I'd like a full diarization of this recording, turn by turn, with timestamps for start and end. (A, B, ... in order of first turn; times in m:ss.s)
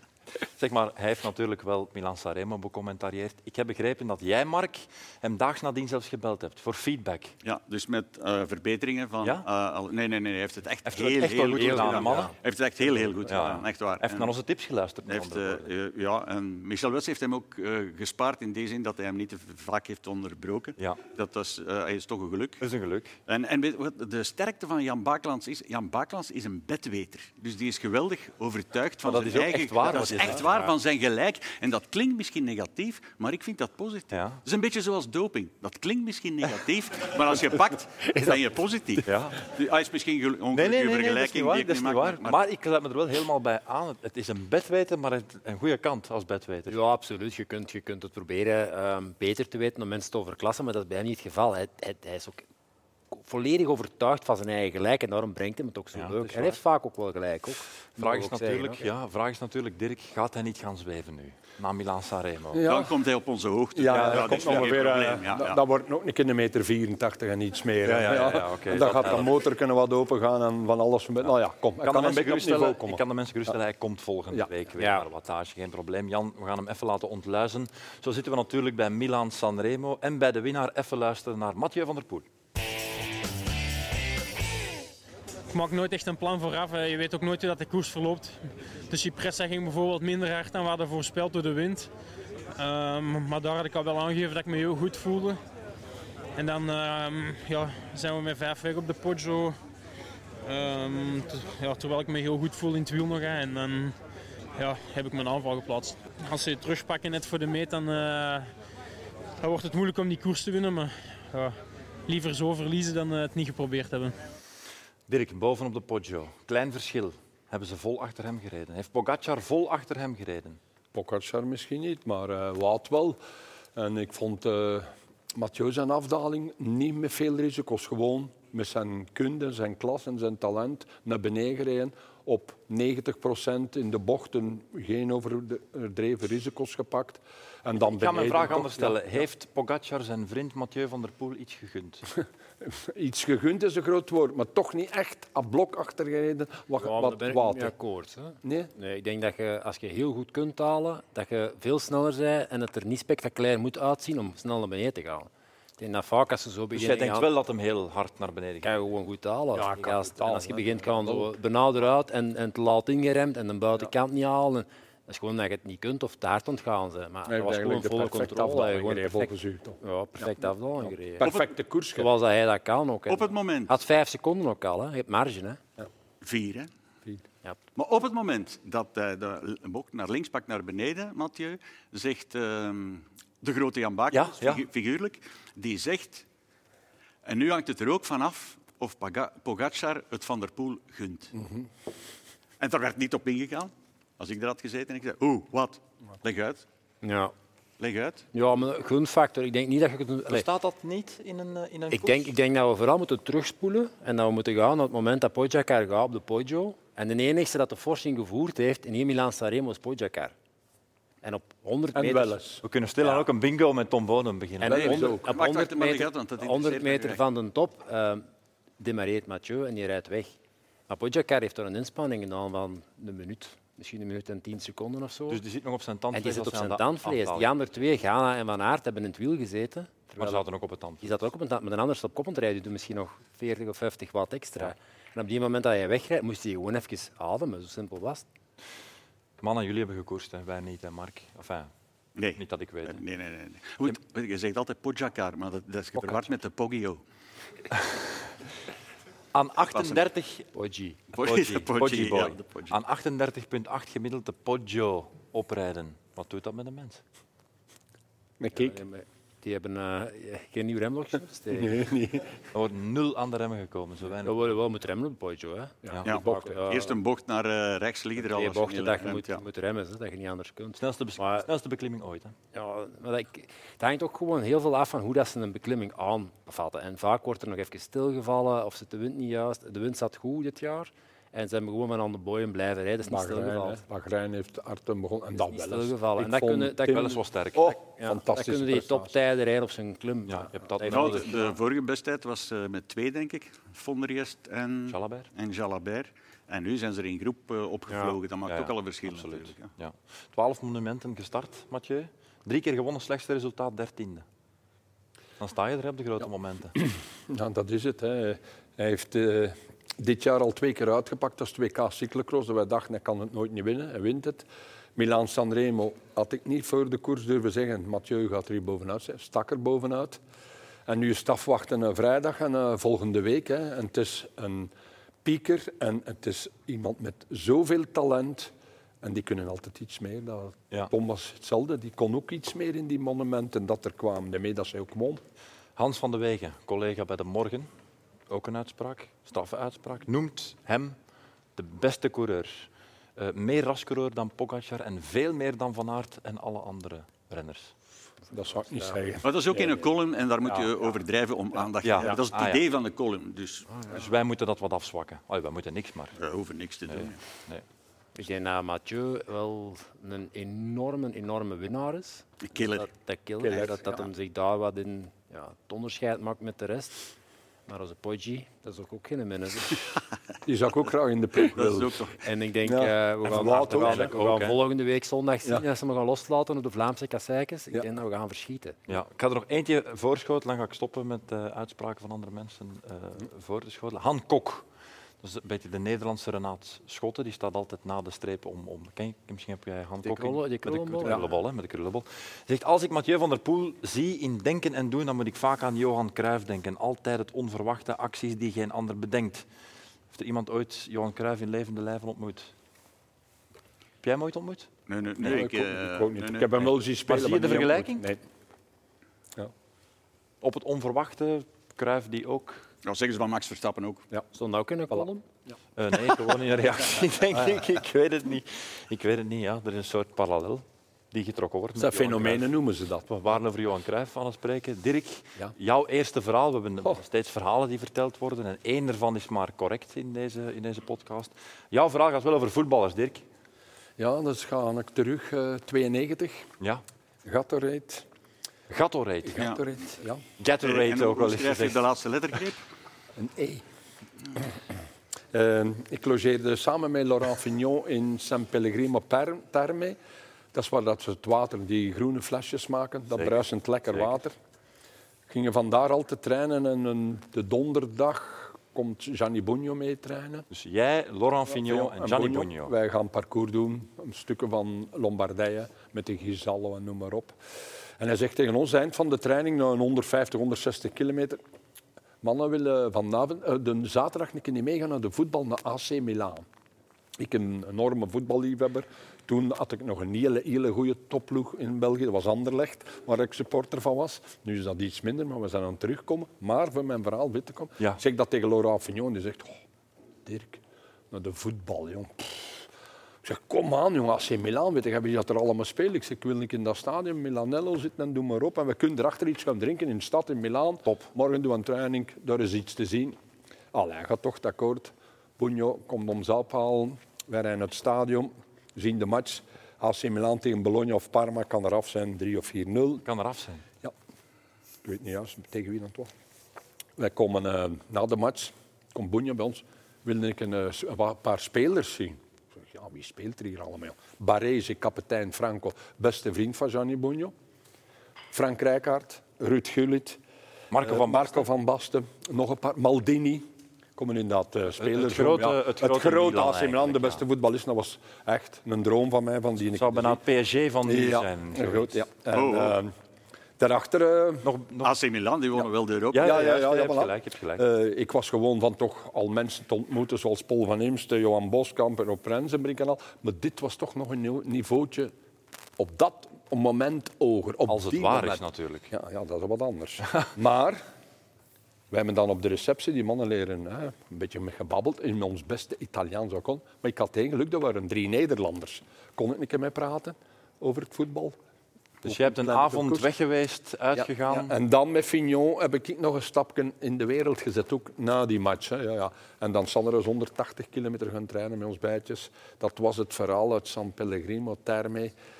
0:00.6-0:07.3 A
0:07.4-0:14.3 B
0:10.8-0:15.7 A
0:11.6-0:12.3 C
0:15.1-0:22.6 B
0:22.6-0:23.1 A
0:23.3-0:42.4 B
0:29.0-0:30.6 A
0:34.1-0:34.4 A
0:39.0-0:39.5 A
0:40.5-0:46.8 A
0:46.7-0:52.4 C
0:53.1-0:58.8 C
0:55.9-0:56.6 A
0:58.0-1:02.7 A
1:02.5-1:02.9 D
1:02.6-1:05.6 B
1:03.7-1:13.0 D
1:03.9-1:04.8 A
1:07.8-1:09.4 A
1:11.8-1:22.2 A
1:14.8-1:15.0 C
1:25.5-1:31.9 E
1:32.6-1:35.4 E
1:36.4-1:39.6 E
1:40.4-1:43.9 E
1:44.6-1:48.5 E
1:49.4-1:51.6 E
1:52.1-1:54.2 E
1:55.1-2:00.6 A
2:00.9-2:03.2 D
2:03.7-2:19.1 D
2:17.9-2:22.1 A
2:22.6-2:27.7 D
2:26.8-2:37.3 C
2:28.4-2:28.7 D
2:36.7-2:38.7 A
2:38.6-2:51.3 C
2:39.5-2:41.4 D
2:47.3-2:50.3 D
2:51.1-2:52.1 D
2:51.2-2:51.5 B
2:52.0-2:55.6 C
2:53.1-2:53.7 B
2:56.2-2:56.7 B
2:57.8-3:06.2 B
3:04.1-3:04.6 A
3:07.2-3:11.3 B
3:11.3-3:11.7 D
3:12.6-3:16.6 B
3:17.0-3:17.3 C
3:17.8-3:18.2 B
3:18.3-3:20.4 C
3:20.3-3:22.3 A
3:21.9-3:30.3 C
3:31.2-3:32.4 C
3:31.9-3:32.6 D
3:32.6-3:35.0 A
3:34.6-3:38.2 C
3:34.6-3:35.3 D
3:34.7-3:37.2 B
3:38.8-3:40.3 C
3:40.9-3:45.4 C
3:45.3-3:47.5 A
3:46.1-3:50.4 C
3:50.2-3:51.2 A
3:51.0-3:58.2 C
3:59.4-4:01.7 A
4:02.2-4:07.0 B
4:02.4-4:03.0 A
4:09.3-4:10.5 A
4:09.7-4:10.0 B
4:10.5-4:11.0 C
4:11.1-4:12.8 B
4:11.2-4:17.0 A
4:18.4-4:18.8 D
4:18.5-4:21.8 C
4:21.5-4:22.3 D
4:22.5-4:24.5 A
4:24.2-4:26.9 C
4:25.8-4:26.6 D
4:26.0-4:29.4 B
4:28.2-4:31.5 C
4:30.8-4:32.3 A
4:32.5-4:43.8 C
4:43.1-4:49.1 D
4:45.5-4:47.2 C
4:46.9-4:47.7 A
4:47.8-4:51.2 C
4:50.3-4:51.4 A
4:50.8-4:59.7 B
4:54.9-4:55.3 A
4:57.9-4:58.2 C
4:58.5-5:04.2 A
5:05.4-5:06.7 A
5:06.8-5:20.2 D
5:20.9-5:24.7 D
5:25.2-5:35.2 D
5:35.8-5:37.7 A
5:38.3-5:41.0 A
5:41.6-5:47.7 A
5:48.3-5:49.8 D
5:49.2-5:53.7 B
5:51.8-5:52.6 A
5:53.9-5:56.2 A
5:56.2-5:57.2 B
5:56.9-5:57.6 A
5:58.2-6:07.0 C
6:02.4-6:02.9 B
6:03.4-6:04.1 D
6:07.7-6:09.8 C
6:10.4-6:12.1 D
6:11.5-6:12.2 B
6:12.2-6:18.8 C
6:12.6-6:14.4 D
6:13.3-6:14.6 A
6:18.9-6:24.6 A
6:25.2-6:39.4 A
6:30.0-6:31.3 C
6:40.1-6:42.5 A
6:44.0-6:44.7 A
6:44.9-6:46.6 B
6:45.2-6:48.2 D
6:47.0-6:48.0 A
6:50.4-6:52.7 A
6:52.8-6:54.0 B
6:54.3-6:55.2 C
6:55.8-7:02.5 A
7:01.8-7:03.1 D
7:03.1-7:13.2 A
7:14.0-7:16.5 D
7:17.2-7:18.0 D
7:18.7-7:19.6 A
7:19.2-7:20.2 D
7:20.4-7:21.8 A
7:20.6-7:22.6 B
7:23.2-7:23.6 D
7:25.3-7:30.0 D
7:30.5-7:34.4 D
7:33.2-7:34.1 A
7:35.3-7:40.5 D
7:40.5-7:42.7 A
7:41.5-7:47.4 D
7:48.0-7:51.4 D
7:52.2-7:56.4 D
7:57.2-8:09.6 D
8:10.2-8:12.7 D
8:13.2-8:23.2 D
8:23.7-8:33.0 D
8:33.0-8:33.6 A
8:34.8-8:36.1 D
8:37.0-8:47.3 D
8:48.3-8:50.2 D
8:50.7-8:51.4 A
8:50.8-9:00.2 D
8:54.8-8:57.2 A
8:59.7-9:02.0 A
9:00.8-9:02.9 D
9:02.3-9:02.8 B
9:03.6-9:04.5 D
9:04.4-9:04.9 A
9:04.8-9:06.4 B
9:06.1-9:07.6 A
9:06.1-9:15.1 D
9:15.8-9:20.8 D
9:17.7-9:18.9 A
9:21.9-9:31.4 D
9:32.0-9:33.1 D
9:32.0-9:34.5 A
9:34.0-9:45.1 D